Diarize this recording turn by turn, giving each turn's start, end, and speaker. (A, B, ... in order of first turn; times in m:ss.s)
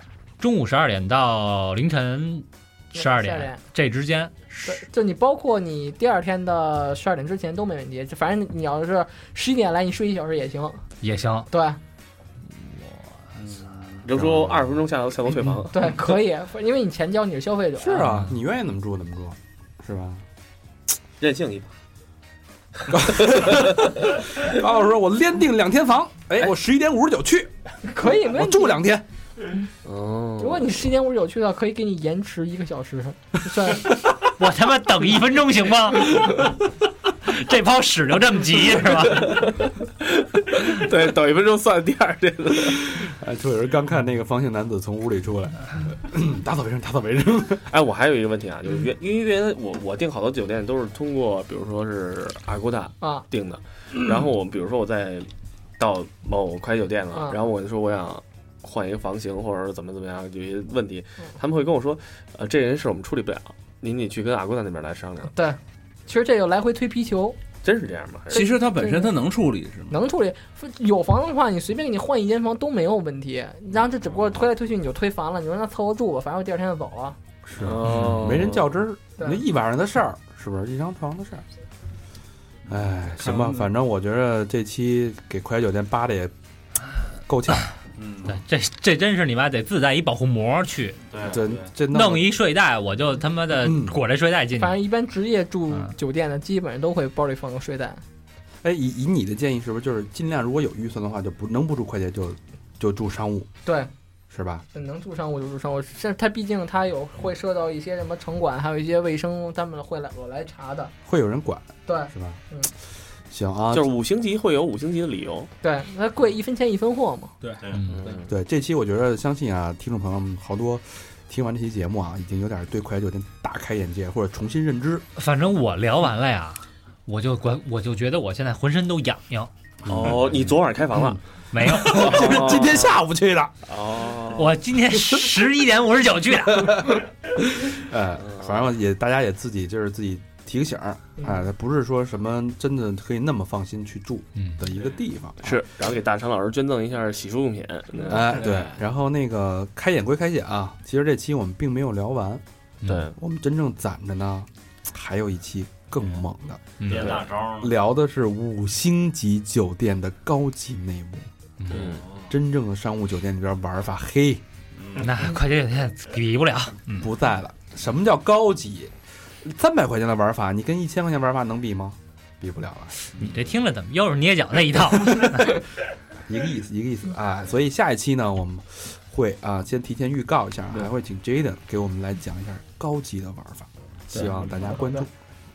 0:00.4-0:04.8 A
0:02.9-0:03.6 B
0:04.6-0:10.8 B
0:11.0-0:11.5 A
0:11.5-0:11.8 B
0:12.5-0:13.3 A
0:13.4-0:14.0 C
0:14.0-0:15.9 D
0:14.1-0:14.7 E
0:15.7-0:18.1 B
0:17.8-0:20.2 E
0:18.0-0:18.3 A
0:21.2-0:21.7 D
0:22.8-0:24.0 D
0:22.9-0:29.0 E
0:27.8-0:28.8 B
0:29.8-0:30.7 D
0:30.4-0:33.9 B
0:34.2-0:36.7 A
0:37.2-0:39.5 A
0:39.1-0:43.0 D
0:42.9-0:47.7 E
0:47.7-1:05.3 D
1:05.3-1:07.4 B
1:07.6-1:08.5 D
1:08.3-1:10.0 C
1:08.3-1:09.1 B
1:09.9-1:17.2 B
1:17.4-1:21.4 E
1:17.6-1:18.7 D
1:17.8-1:18.3 A
1:22.7-1:26.3 E
1:23.1-1:23.7 C
1:27.3-1:27.7 E
1:28.1-1:28.4 F
1:28.2-1:31.0 A
1:31.1-1:31.7 F
1:31.2-1:32.3 E
1:31.9-1:34.8 A
1:33.5-1:34.0 E
1:34.5-1:38.0 B
1:38.6-1:43.5 E
1:44.3-1:44.6 E
1:44.7-1:50.9 B
1:51.0-1:52.4 E
1:51.8-1:52.7 B
1:53.3-1:53.9 E
1:53.7-1:55.5 D
1:55.6-1:57.3 B
1:57.4-1:58.2 C
1:57.6-1:57.9 F
1:57.7-1:58.0 A
1:57.9-1:58.3 D
1:58.3-2:05.0 E
2:05.2-2:09.5 A
2:09.8-2:13.5 E
2:09.9-2:11.2 D
2:11.5-2:12.6 A
2:11.8-2:12.9 D
2:13.6-2:14.6 D
2:14.3-2:17.0 A
2:16.5-2:25.6 E
2:18.2-2:18.7 D
2:24.4-2:24.7 A
2:25.4-2:28.7 D
2:28.1-2:32.4 E
2:32.8-2:33.1 A
2:32.8-2:33.1 D
2:33.2-2:36.7 E
2:36.8-2:37.1 A
2:36.8-2:37.8 F
2:36.9-2:37.2 D
2:37.6-2:41.3 E
2:41.6-2:41.9 A
2:41.7-2:42.0 D
2:41.9-2:42.3 F
2:42.3-2:44.4 E
2:44.8-2:45.1 C
2:45.0-2:47.1 A
2:47.0-2:53.0 E
2:53.2-2:53.5 C
2:53.2-2:55.6 A
2:55.1-2:55.5 E
2:56.3-3:05.1 E
3:04.1-3:04.8 C